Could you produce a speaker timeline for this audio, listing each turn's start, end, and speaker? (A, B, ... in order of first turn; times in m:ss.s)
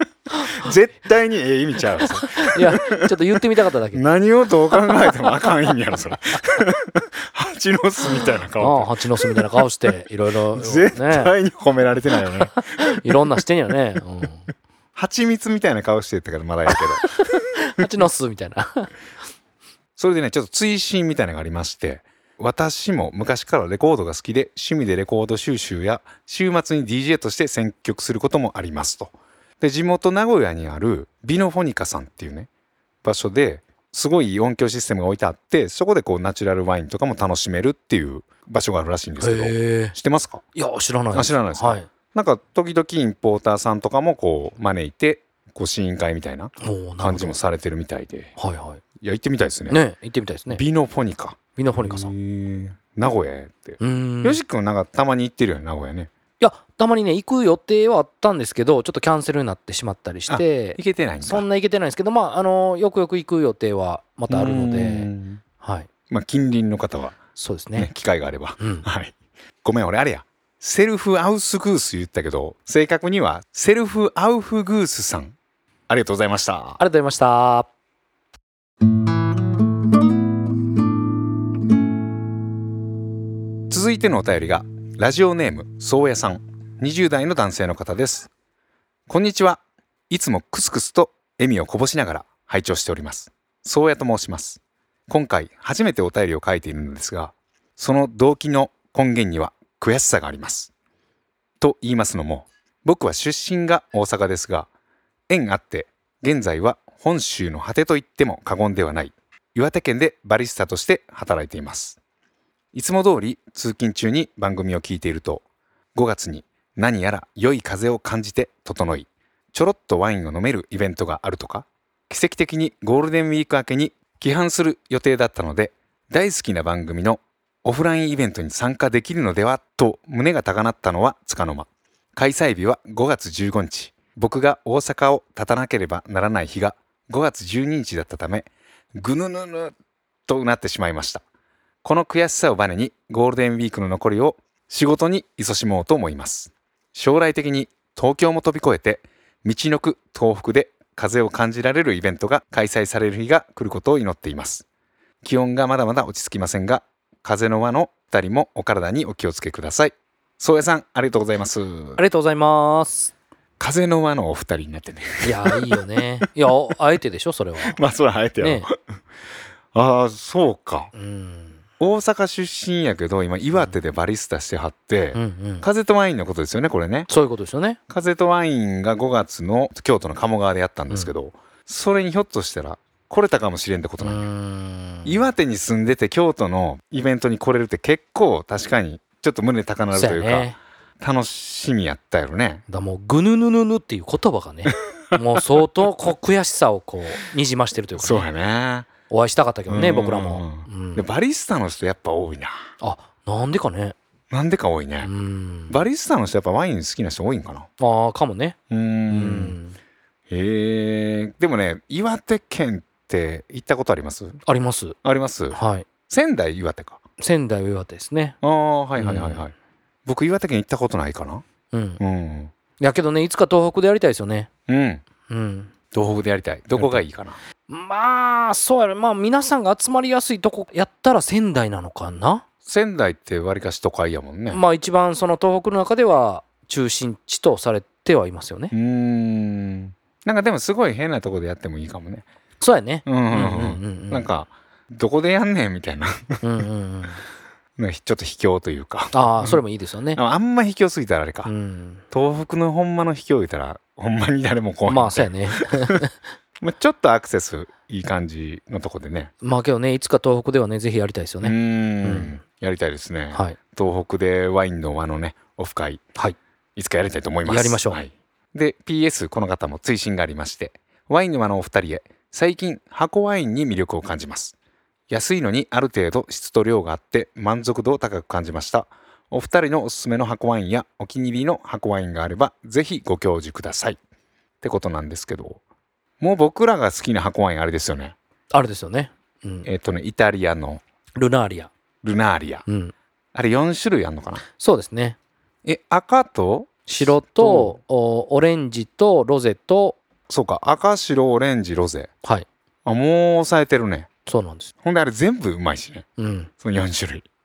0:00.3-0:00.6 A
0:00.4-0:03.1 B
0:02.0-0:04.0 A
0:03.9-0:09.4 B
0:04.9-0:05.5 A
0:08.6-0:11.3 A
0:10.5-0:13.2 B
0:12.5-0:14.5 A
0:15.0-0:17.4 B
0:16.7-0:18.9 A
0:20.0-0:32.5 B
0:33.0-0:40.4 B
0:39.2-0:40.0 A
0:40.6-0:41.9 A
0:41.1-0:48.3 B
0:46.6-0:47.4 A
0:48.4-0:48.8 A
0:49.0-0:49.8 B
0:49.7-0:50.6 A
0:50.5-0:56.1 B
0:51.6-0:52.1 A
0:53.8-0:54.4 A
0:56.4-1:05.1 A
1:00.3-1:01.5 B
1:04.3-1:05.4 B
1:05.6-1:05.9 A
1:06.1-1:07.2 B
1:07.4-1:07.9 A
1:07.8-1:15.4 B
1:08.6-1:08.9 A
1:15.9-1:16.8 B
1:16.8-1:17.7 A
1:23.7-1:28.3 B
1:29.1-1:40.7 B
1:41.6-1:44.7 B
1:45.3-1:52.0 B
1:52.7-2:19.7 B
2:20.3-2:21.2 B
2:21.8-2:34.6 B
2:35.2-2:42.0 B
2:42.0-2:43.1 A
2:43.6-2:46.2 B
2:45.2-2:47.8 A
2:47.6-2:48.7 B
2:48.4-2:48.7 A
2:49.7-2:50.9 B
2:50.9-2:51.6 A
2:51.8-2:57.1 B
2:55.1-2:55.6 A
2:57.1-2:57.8 A
2:57.9-3:04.2 B
3:04.0-3:05.2 A
3:05.0-3:12.6 B
3:09.9-3:10.6 A
3:12.7-3:18.3 A
3:18.0-3:18.9 B
3:19.1-3:21.1 A
3:19.7-3:22.6 B
3:22.8-3:24.0 A
3:24.3-3:25.1 B
3:25.0-3:25.8 A
3:25.7-3:27.7 B
3:27.8-3:28.6 A
3:28.7-3:29.6 B
3:29.1-3:29.8 A
3:30.3-3:34.4 B
3:34.5-3:35.0 A
3:35.0-3:35.6 B
3:35.5-3:35.9 A
3:36.1-3:37.0 B
3:37.2-3:38.4 A
3:38.4-3:39.5 B
3:39.0-3:39.4 A
3:40.1-3:41.4 B
3:41.7-3:42.0 A
3:42.0-3:42.5 B
3:42.8-3:44.5 A
3:44.7-3:45.0 B
3:45.3-3:45.7 A
3:45.9-3:47.4 B
3:47.7-3:52.4 A
3:52.6-3:54.6 B
3:54.5-3:58.7 A
3:58.7-4:02.2 B
4:02.6-4:04.3 A
4:03.1-4:06.4 B
4:06.4-4:07.2 A
4:07.8-4:09.6 B
4:09.1-4:10.2 A
4:10.1-4:11.5 B
4:11.4-4:12.0 A
4:12.1-4:16.0 B
4:14.9-4:16.1 A
4:16.6-4:19.3 B
4:19.4-4:22.4 A
4:21.4-4:26.0 B
4:23.3-4:23.6 A
4:26.8-4:34.6 B
4:27.5-4:28.0 A
4:35.1-4:44.0 B
4:44.6-4:45.6 B
4:46.2-4:48.1 B
4:48.5-4:49.7 A
4:49.6-4:50.8 B
4:51.2-4:51.7 A
4:52.0-4:52.6 B
4:52.6-4:52.9 A
4:53.3-4:54.4 B
4:54.6-4:55.2 A
4:55.6-4:57.8 B
4:56.9-5:00.0 A
5:00.3-5:02.1 B
5:02.8-5:04.1 B
5:04.2-5:04.7 A
5:04.8-5:06.1 B
5:06.2-5:06.5 A
5:06.6-5:07.3 B